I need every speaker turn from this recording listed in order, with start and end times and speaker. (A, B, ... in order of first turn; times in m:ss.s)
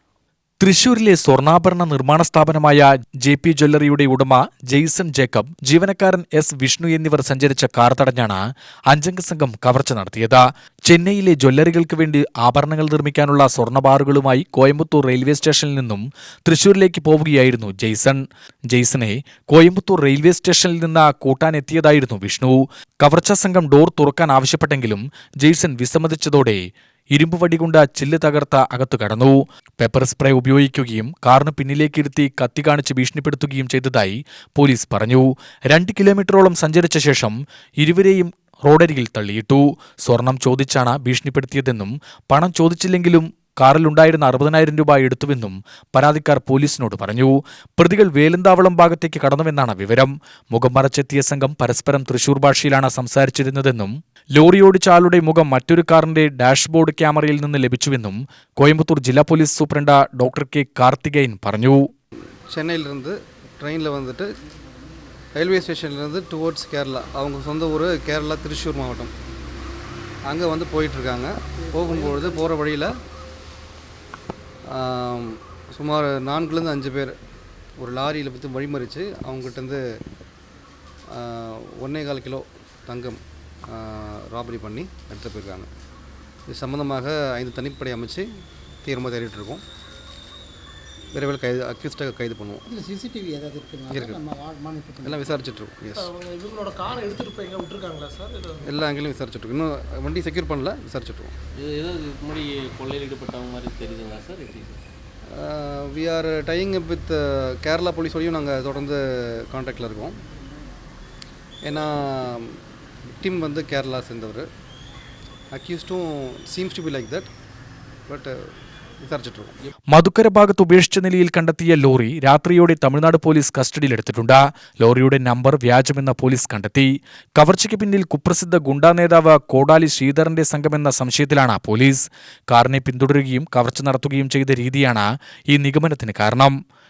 0:00.6-1:01.8 A
1:02.5-1:04.3 B
1:05.3-1:09.1 B
1:10.2-1:12.9 B
1:11.9-1:12.4 C
1:14.7-1:17.1 B
1:17.8-1:19.8 B
1:21.1-1:23.2 B
1:23.7-1:25.7 B
1:26.5-1:28.2 B
1:28.8-1:29.6 B
1:31.1-1:32.6 B
1:32.7-1:35.3 D
1:33.9-1:34.2 B
1:35.0-1:36.1 B
1:35.9-1:38.7 C
1:38.6-1:41.3 B
1:41.5-1:44.8 E
1:45.3-1:50.2 B
1:51.6-1:52.6 B
1:53.2-1:54.5 B
1:55.5-1:57.3 B
1:58.1-1:58.4 B
1:59.0-1:59.6 B
1:59.9-2:16.5 A